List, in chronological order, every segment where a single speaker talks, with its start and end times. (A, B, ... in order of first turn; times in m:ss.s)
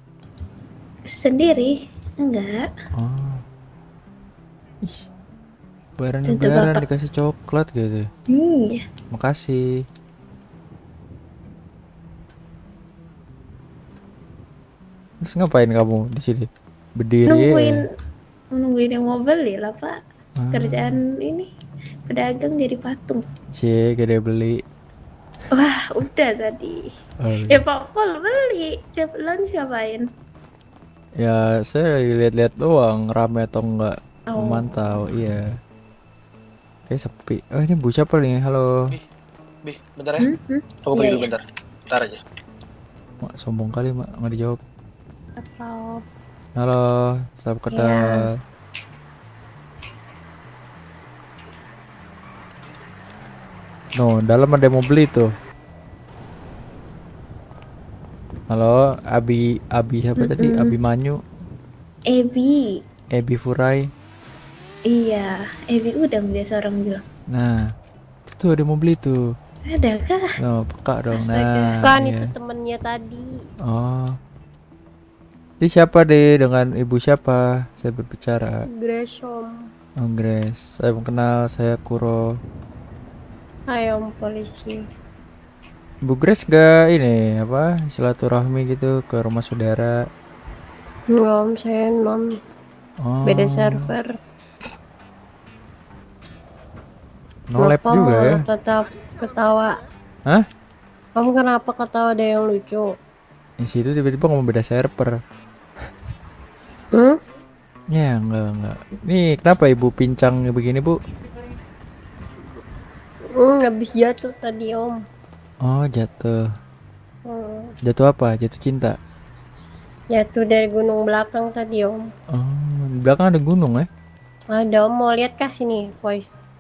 0:01.1-0:02.7 A
0:03.0-0:03.4 B
0:06.0-0:08.1 B
0:06.2-0:06.8 A
0:08.3-0:08.8 A
0:09.1-0:09.6 B
0:15.2-0:17.7 B
0:17.3-0:17.8 A
0:18.5-0:20.0 A
0:20.4-0:21.0 B
0:20.5-0:21.5 A
0:22.1-0:23.2 A
0:23.6-0:24.6 B
0:25.5-0:26.8 A
0:27.2-0:27.6 B
0:27.5-0:30.0 A
0:31.2-0:35.4 B
0:34.3-0:34.7 A
0:36.9-0:38.7 B
0:39.6-0:40.2 C
0:40.2-0:41.3 A
0:40.8-0:42.2 C
0:43.3-0:44.6 B
0:45.4-0:46.0 A
0:46.6-0:48.3 B
0:47.7-0:48.1 D
0:54.0-0:55.3 B
0:58.5-1:01.2 B
1:00.2-1:00.8 A
1:02.1-1:02.6 A
1:03.2-1:03.8 B
1:04.9-1:07.0 A
1:07.3-1:07.6 B
1:08.3-1:09.2 B
1:09.7-1:10.2 A
1:10.4-1:12.3 B
1:11.1-1:11.8 A
1:11.8-1:13.3 D
1:13.6-1:14.2 B
1:15.6-1:18.5 B
1:18.8-1:19.5 D
1:20.0-1:22.2 B
1:23.7-1:24.8 D
1:26.0-1:29.9 B
1:31.1-1:32.3 D
1:33.0-1:33.9 B
1:33.2-1:34.1 D
1:37.5-1:38.4 B
1:37.6-1:39.8 D
1:41.2-1:42.9 D
1:43.6-1:45.1 B
1:47.9-1:51.0 B
1:53.4-1:55.0 D
1:55.6-1:56.4 B
1:57.2-1:57.7 D
1:57.8-1:59.0 B
2:00.1-2:02.0 D
2:02.3-2:03.9 B
2:04.5-2:06.2 D